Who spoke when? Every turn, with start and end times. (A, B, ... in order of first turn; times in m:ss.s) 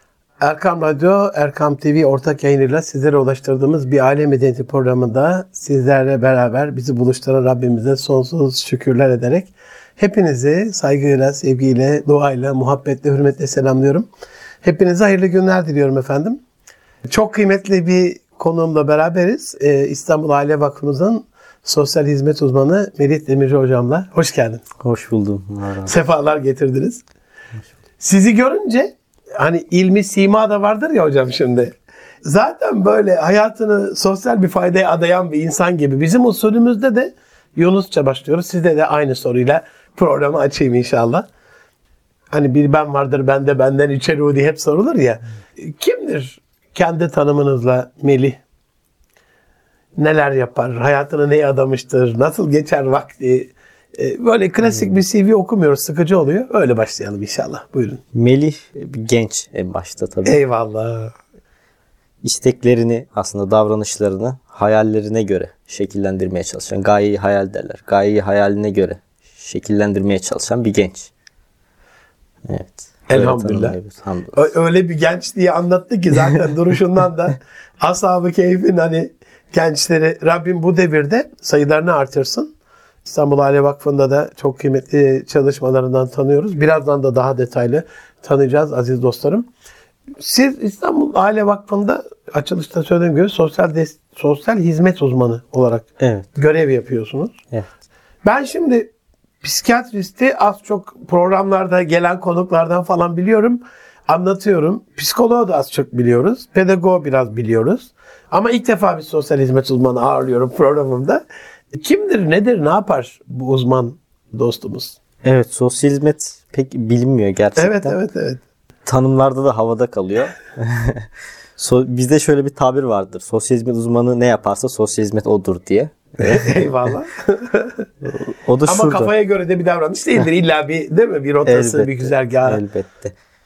0:00.4-0:14.1 A
0:14.6-0:16.4 A
0:17.1-0:24.6 A
0:24.8-0:25.9 B
0:25.8-0:27.0 A
0:28.0-0:41.2 A
0:42.3-0:48.4 A
0:50.0-0:58.0 A
0:54.6-0:55.0 B
0:58.1-1:00.4 B
1:00.2-1:01.1 A
1:02.2-1:11.1 B
1:12.4-1:14.4 B
1:13.1-1:13.8 A
1:14.3-1:22.5 A
1:23.0-1:29.5 A
1:30.2-1:37.4 A
1:36.0-1:36.3 B
1:38.2-1:38.9 A
1:39.4-1:51.2 A
1:51.7-1:55.0 A
1:55.2-1:58.0 B
1:57.6-1:58.4 A
1:58.8-2:06.6 B
2:06.2-2:07.8 A
2:08.0-2:09.1 B
2:08.6-2:12.6 A
2:11.4-2:13.1 B